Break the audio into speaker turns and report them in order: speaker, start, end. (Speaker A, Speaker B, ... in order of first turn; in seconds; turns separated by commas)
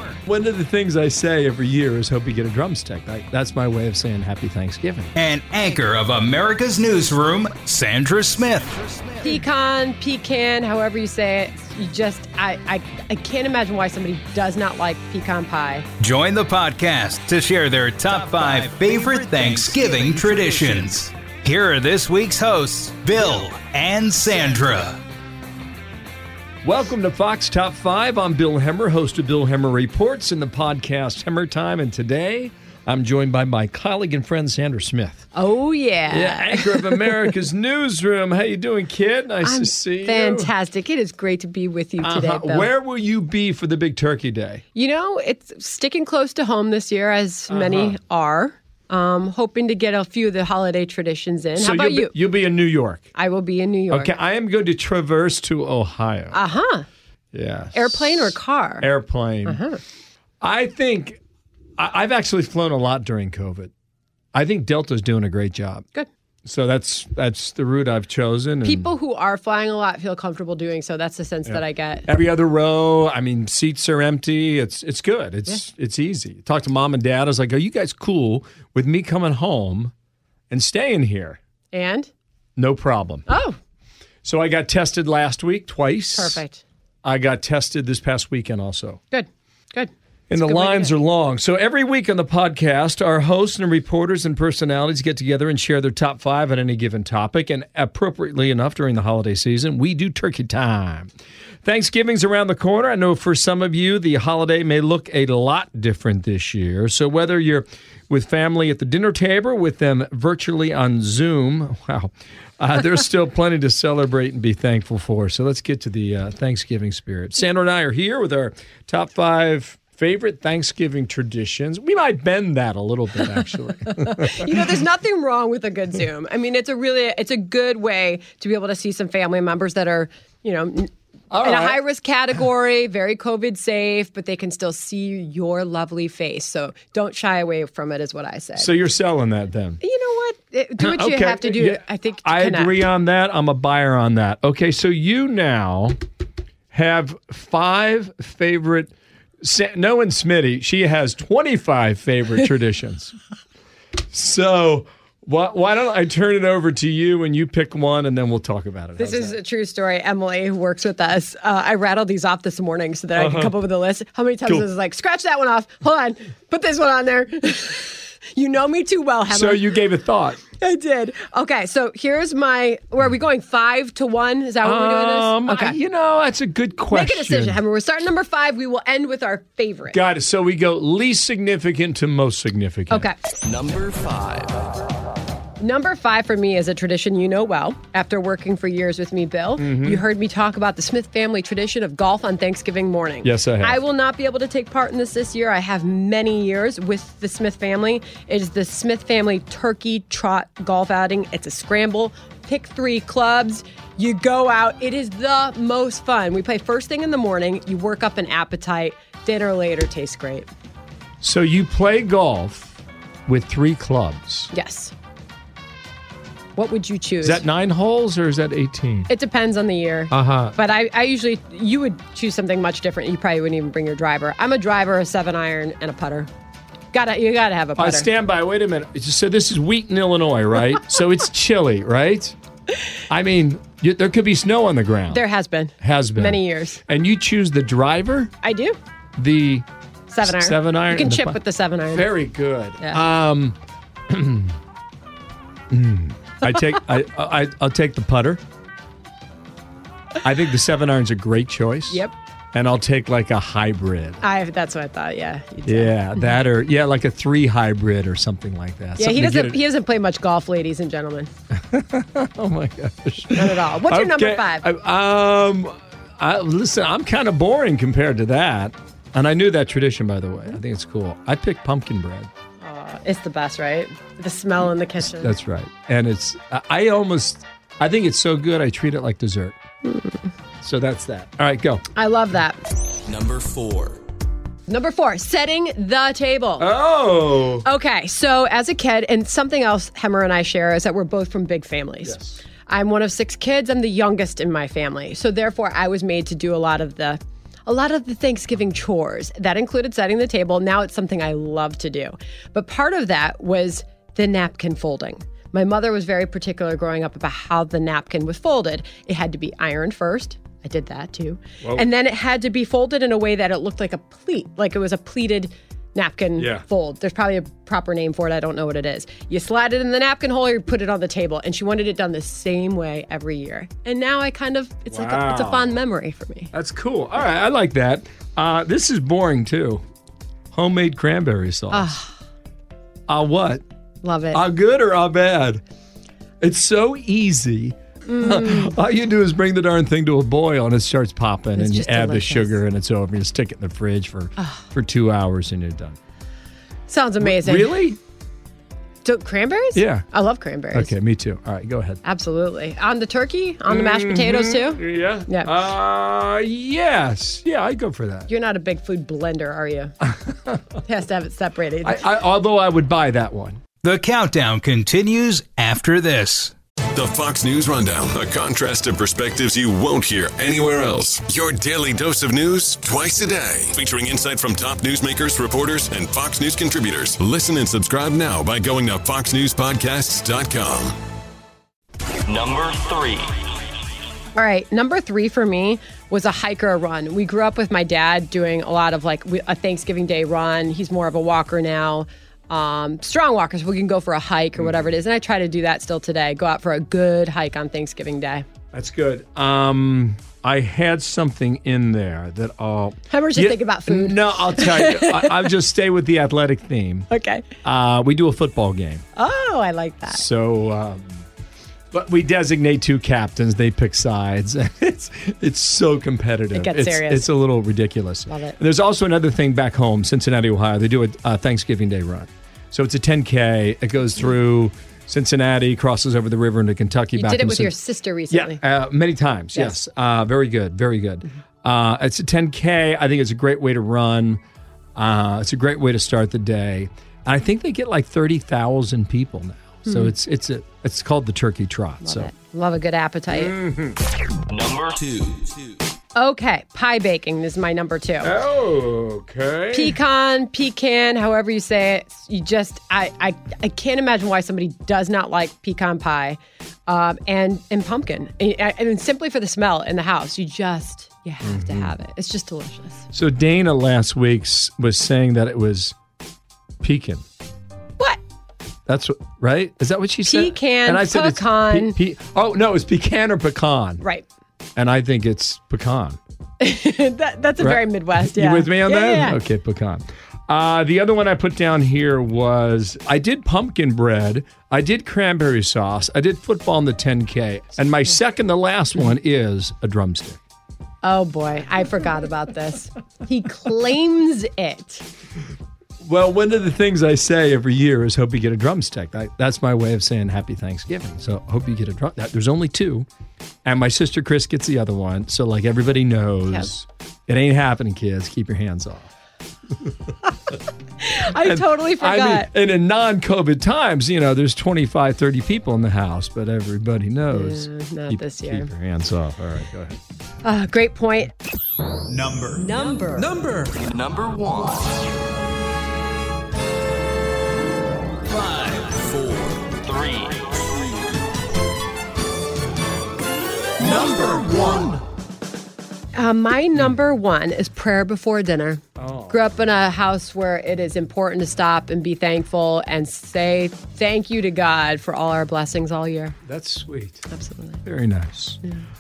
Speaker A: 0.3-5.1, Speaker B: 5.2-8.9, Speaker C: 9.2-15.9, Speaker B: 16.0-25.0, Speaker A: 26.6-35.3, Speaker C: 35.3-37.3, Speaker A: 36.1-40.5, Speaker C: 39.4-42.7, Speaker A: 42.0-44.6, Speaker C: 44.7-52.1, Speaker A: 47.5-48.0, Speaker A: 51.6-53.1, Speaker C: 53.1-54.1, Speaker A: 53.9-56.4, Speaker C: 56.3-56.9, Speaker A: 57.3-59.6, Speaker C: 57.7-58.9, Speaker C: 59.5-59.8, Speaker A: 60.4-61.2, Speaker A: 61.8-63.7, Speaker A: 64.3-65.8, Speaker A: 66.5-68.9, Speaker C: 68.6-72.1, Speaker A: 71.5-79.9, Speaker A: 80.5-81.4, Speaker C: 81.7-82.1, Speaker A: 82.6-83.3, Speaker C: 83.3-83.6, Speaker A: 84.2-86.4, Speaker C: 86.2-86.6, Speaker A: 87.0-89.0, Speaker C: 89.1-90.9, Speaker A: 90.3-101.1, Speaker A: 101.7-124.6, Speaker C: 124.2-130.9, Speaker A: 131.3-131.8, Speaker C: 131.4-138.7, Speaker A: 138.6-139.8, Speaker C: 139.8-142.8, Speaker A: 140.8-146.0, Speaker A: 146.7-153.1, Speaker A: 154.1-159.4, Speaker C: 159.0-169.7, Speaker A: 163.2-163.6, Speaker A: 169.3-170.4, Speaker C: 170.6-175.8, Speaker A: 174.6-177.6, Speaker C: 176.9-180.0, Speaker A: 179.9-183.1, Speaker C: 182.9-183.2, Speaker D: 183.4-184.7, Speaker C: 185.6-210.5, Speaker A: 189.6-190.0, Speaker A: 193.2-193.8, Speaker A: 211.2-212.8, Speaker A: 213.3-214.5, Speaker C: 214.5-214.9, Speaker C: 216.6-217.4, Speaker A: 217.2-219.1, Speaker C: 219.1-226.3, Speaker A: 220.1-220.6, Speaker C: 226.9-228.1, Speaker A: 227.8-232.3, Speaker A: 233.1-235.2, Speaker C: 235.1-236.8, Speaker A: 235.8-238.3, Speaker C: 238.4-238.8, Speaker A: 239.2-239.7, Speaker C: 240.1-242.1, Speaker A: 240.2-241.4, Speaker A: 241.9-243.6, Speaker A: 244.1-244.6, Speaker A: 245.7-248.4, Speaker A: 250.2-254.2, Speaker C: 254.2-256.0, Speaker A: 255.7-259.6, Speaker C: 259.0-261.3, Speaker A: 261.6-272.3, Speaker C: 263.3-264.7, Speaker C: 272.6-275.4, Speaker A: 275.0-279.6, Speaker C: 279.8-280.3, Speaker A: 280.6-281.8, Speaker C: 281.9-282.6, Speaker D: 283.1-284.0, Speaker C: 284.7-286.7, Speaker A: 286.6-287.7, Speaker C: 287.6-326.5, Speaker A: 292.0-292.4, Speaker A: 316.4-316.6, Speaker A: 324.9-325.8, Speaker A: 326.5-329.8, Speaker A: 330.5-332.0, Speaker C: 331.7-332.1, Speaker A: 333.1-333.6, Speaker C: 334.0-334.4, Speaker A: 334.3-335.6, Speaker A: 336.4-346.0, Speaker C: 338.1-338.8, Speaker C: 341.6-342.6, Speaker C: 346.9-347.8, Speaker A: 347.2-348.0, Speaker C: 349.0-350.9, Speaker A: 349.8-350.1, Speaker A: 350.7-352.0, Speaker C: 352.0-355.5, Speaker A: 353.7-358.3, Speaker C: 358.3-359.9, Speaker C: 360.9-362.1, Speaker A: 361.8-363.6, Speaker B: 363.8-366.5, Speaker E: 366.9-380.9, Speaker D: 382.3-383.3, Speaker C: 384.4-398.5, Speaker A: 398.7-407.1, Speaker C: 403.1-405.5, Speaker C: 407.1-407.5, Speaker A: 407.6-409.1, Speaker C: 409.2-410.2, Speaker A: 410.1-411.1, Speaker A: 411.9-427.7, Speaker C: 416.5-417.3, Speaker C: 418.3-418.6, Speaker C: 427.1-428.6, Speaker A: 428.3-434.4, Speaker A: 435.0-442.3, Speaker C: 439.9-440.1, Speaker C: 442.0-443.5, Speaker A: 443.3-444.0, Speaker D: 444.5-445.6, Speaker C: 446.1-448.4, Speaker A: 448.2-450.0, Speaker C: 449.7-463.1, Speaker A: 461.4-461.9, Speaker A: 463.1-465.9, Speaker A: 466.8-467.2, Speaker A: 468.9-474.0, Speaker C: 470.2-472.0, Speaker C: 474.0-474.3, Speaker A: 474.8-476.2, Speaker C: 476.6-479.4, Speaker A: 477.6-490.4, Speaker C: 491.0-495.1, Speaker A: 496.0-503.1, Speaker A: 503.6-509.1, Speaker C: 511.0-512.5, Speaker A: 511.4-520.0, Speaker C: 517.3-518.7, Speaker C: 520.4-521.3, Speaker B: 522.1-522.6, Speaker C: 522.6-523.4, Speaker D: 523.7-525.0, Speaker B: 528.3-529.0, Speaker D: 529.0-530.5, Speaker B: 533.8-535.0, Speaker C: 536.1-546.4, Speaker A: 539.0-539.4, Speaker A: 546.5-547.3, Speaker C: 547.3-547.8, Speaker A: 547.8-548.6